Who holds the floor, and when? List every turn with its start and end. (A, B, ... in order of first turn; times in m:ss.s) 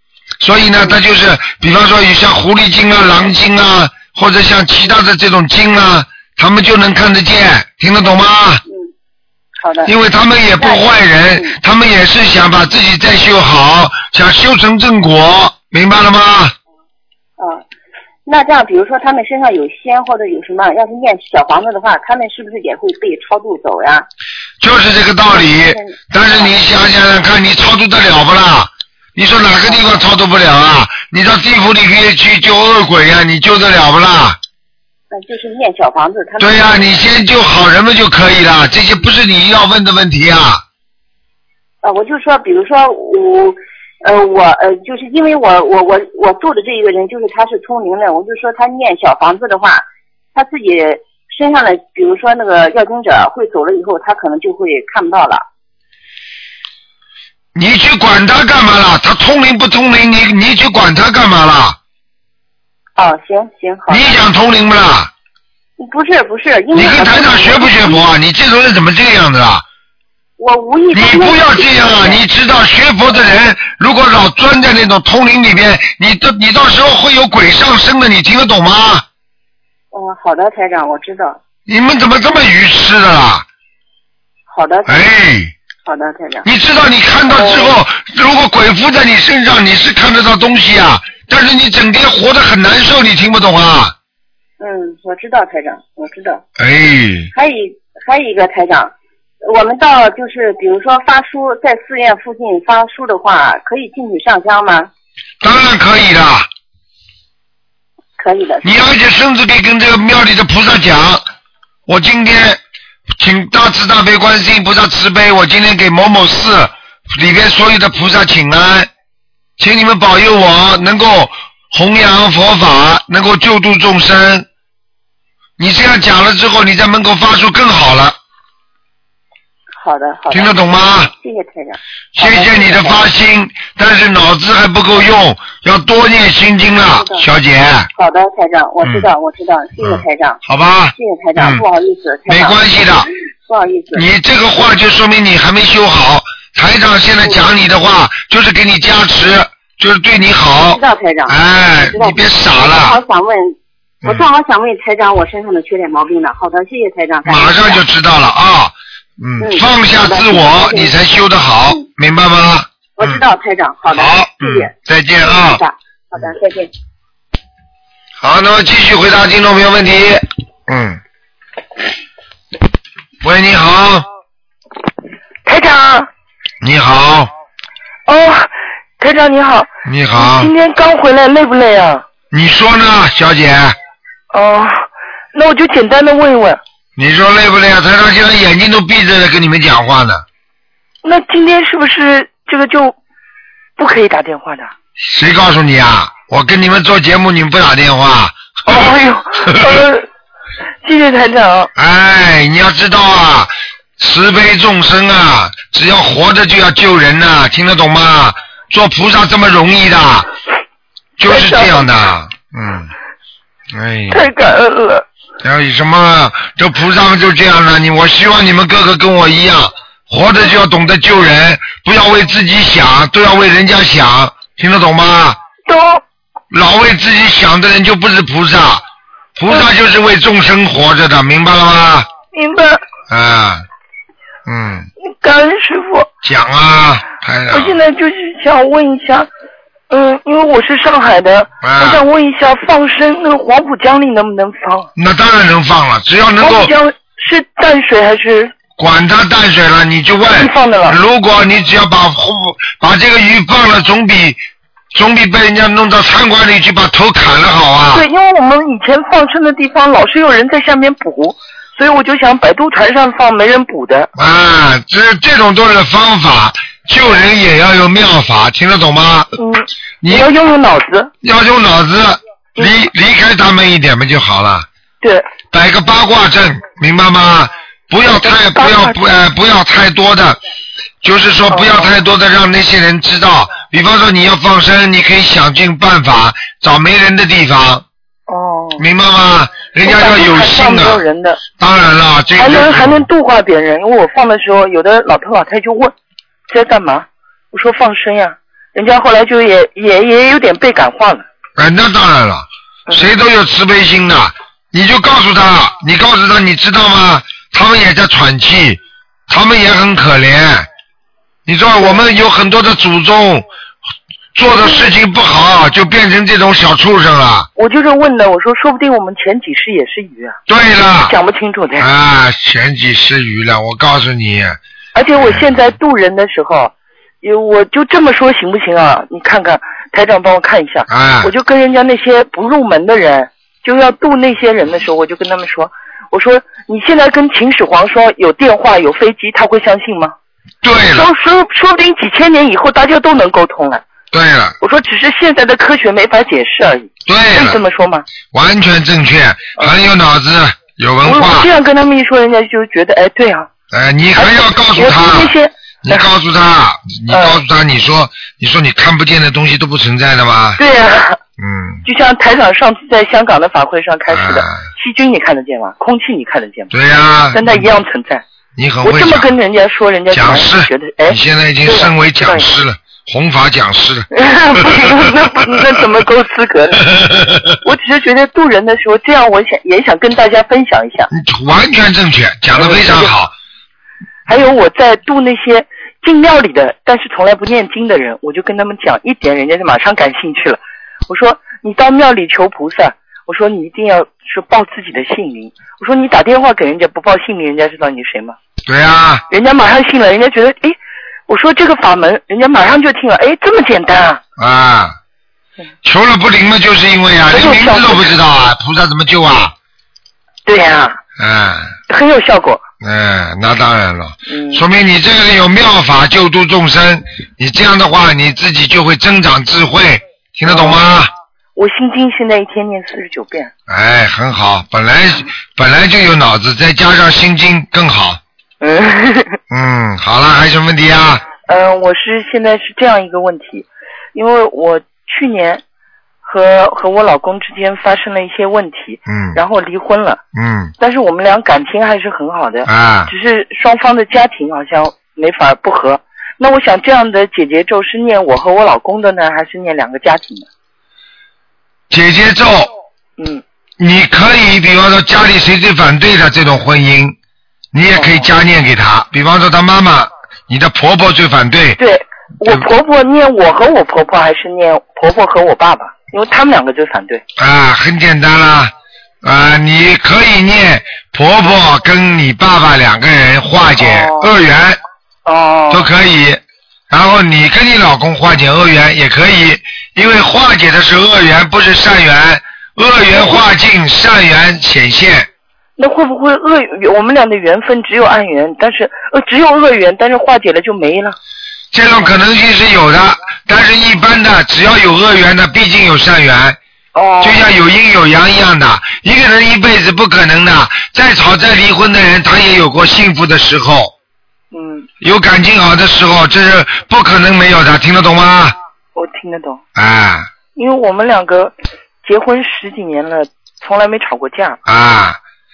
0:00.4-0:08.6 A
0:08.6-0:08.9 B
0:09.6-0:09.9 B
0:09.9-0:16.6 A
0:10.6-0:11.6 B
0:17.4-0:17.6 B
0:18.3-0:24.1 B
0:24.6-0:34.4 A
0:25.3-0:26.5 B
0:29.7-0:30.0 B
0:35.1-0:37.0 B
0:36.4-0:40.6 A
0:41.8-0:55.4 B
0:57.6-1:01.8 A
1:03.0-1:04.2 B
1:03.9-1:05.1 A
1:05.8-1:08.1 B
1:06.7-1:09.6 A
1:10.4-1:12.2 B
1:10.9-1:19.0 A
1:19.9-1:21.4 B
1:21.7-1:23.5 A
1:24.5-1:25.1 B
1:24.9-1:25.5 A
1:25.8-1:26.5 B
1:26.4-1:34.0 A
1:27.3-1:27.8 B
1:34.6-1:36.4 B
1:36.6-1:37.3 A
1:37.3-1:44.9 B
1:45.4-1:46.5 A
1:48.2-1:48.8 B
1:48.6-1:51.3 A
1:51.9-1:52.6 A
1:53.2-1:58.9 A
1:59.6-2:04.5 A
2:05.6-2:08.2 A
2:09.8-2:13.0 B
2:10.3-2:11.1 A
2:12.2-2:17.9 A
2:16.9-2:17.2 B
2:18.0-2:20.4 B
2:18.8-2:19.1 A
2:19.8-2:21.6 A
2:21.0-2:22.6 B
2:22.3-2:23.1 A
2:23.5-2:24.1 B
2:23.9-2:33.0 A
2:27.2-2:27.5 B
2:30.7-2:37.8 B
2:37.3-2:43.2 A
2:39.4-2:41.0 B
2:43.0-2:44.7 B
2:43.9-2:45.6 A
2:45.2-2:46.7 B
2:48.2-2:51.0 A
2:53.2-2:54.1 A
2:55.4-2:56.1 C
2:56.6-2:57.3 A
2:58.1-3:02.0 C
2:59.8-3:00.5 A
3:02.3-3:03.8 A
3:04.3-3:06.6 C
3:07.0-3:10.2 A
3:11.0-3:13.0 C
3:13.8-3:14.7 C
3:15.0-3:19.8 A
3:18.7-3:20.1 C
3:20.8-3:21.7 C
3:21.8-3:30.3 A
3:31.2-3:32.9 A
3:31.3-3:31.9 C
3:33.7-3:34.3 A
3:34.1-3:35.1 C
3:35.4-3:45.4 A
3:45.7-3:46.0 C
3:46.5-3:48.8 A
3:49.4-3:52.1 A
3:52.3-3:52.8 C
3:53.1-3:53.6 A
3:54.5-3:54.9 A
3:55.0-3:56.1 C
3:56.2-3:57.8 A
3:57.5-3:59.3 C
3:59.9-4:04.9 C
4:01.6-4:02.0 A
4:05.0-4:06.7 A
4:06.4-4:08.5 C
4:08.8-4:14.4 A
4:10.4-4:11.0 C
4:14.9-4:18.0 A
4:17.9-4:24.1 C
4:24.2-4:29.3 A
4:29.4-4:31.1 C
4:30.0-4:30.3 A
4:31.2-4:34.7 A
4:32.6-4:32.9 C
4:35.0-4:35.3 C
4:35.5-4:40.4 A
4:38.2-4:39.0 C
4:41.0-4:47.8 A
4:41.5-4:41.9 C
4:48.3-4:48.8 C
4:48.8-4:51.0 A
4:49.8-4:51.4 C
4:51.6-4:53.0 A
4:52.4-4:55.9 C
4:56.5-5:01.3 C
5:01.6-5:10.7 A
5:11.5-5:13.5 A
5:14.4-5:17.5 A
5:14.6-5:14.9 C
5:17.6-5:20.4 C
5:20.5-5:21.1 A
5:21.1-5:21.9 C
5:21.8-5:24.6 A
5:25.0-5:40.2 C
5:25.2-5:25.5 A
5:30.9-5:31.3 A
5:40.6-5:41.1 A
5:40.9-5:43.9 C
5:44.1-5:44.6 A
5:44.6-5:48.1 C
5:47.1-5:47.6 A
5:48.3-5:51.5 A
5:49.6-5:49.8 C
5:51.0-5:53.5 C
5:53.7-5:55.3 A
5:54.1-5:56.0 C
5:55.8-6:00.6 A
5:57.1-5:57.4 C
6:00.6-6:01.2 C
6:01.4-6:01.8 A
6:01.8-6:06.7 C
6:04.1-6:04.7 A
6:06.7-6:07.6 A
6:07.3-6:08.2 C
6:08.6-6:09.3 A
6:08.8-6:12.5 C
6:10.1-6:14.8 A
6:14.1-6:16.9 C
6:16.9-6:17.6 A
6:17.6-6:21.1 C
6:21.1-6:23.3 A
6:22.5-6:23.1 C
6:24.3-6:38.4 C
6:38.7-6:39.2 A
6:39.3-6:40.8 C
6:41.3-6:44.2 C
6:44.4-6:45.0 A
6:45.8-6:49.5 A
6:47.3-6:48.1 C
6:50.5-6:51.0 C
6:51.2-6:51.8 A
6:51.9-6:52.6 C
6:52.8-7:01.1 A
6:54.3-6:54.6 C
7:00.5-7:00.8 C
7:01.6-7:03.5 C
7:03.7-7:08.2 A
7:08.6-7:09.4 C
7:09.5-7:11.2 A
7:11.5-7:15.6 C
7:16.2-7:20.2 C
7:19.1-7:19.4 A
7:20.4-7:20.7 A
7:20.8-7:30.5 C
7:22.7-7:23.1 A
7:31.9-7:32.7 A
7:33.2-7:33.4 C
7:33.8-7:37.2 A
7:37.7-7:41.8 A
7:37.9-7:38.3 C
7:41.8-7:47.2 C
7:47.4-7:48.7 A
7:49.2-7:54.8 A
7:53.8-7:54.3 C
7:55.3-7:55.9 C
7:55.7-8:05.3 A
8:03.1-8:03.4 C
8:05.8-8:11.2 C
8:11.7-8:16.6 A
8:17.0-8:17.5 C
8:17.2-8:23.9 A
8:24.5-8:24.9 C
8:25.0-8:28.6 A
8:29.0-8:29.6 C
8:29.8-8:30.3 A
8:30.6-8:34.6 C
8:34.7-8:35.2 A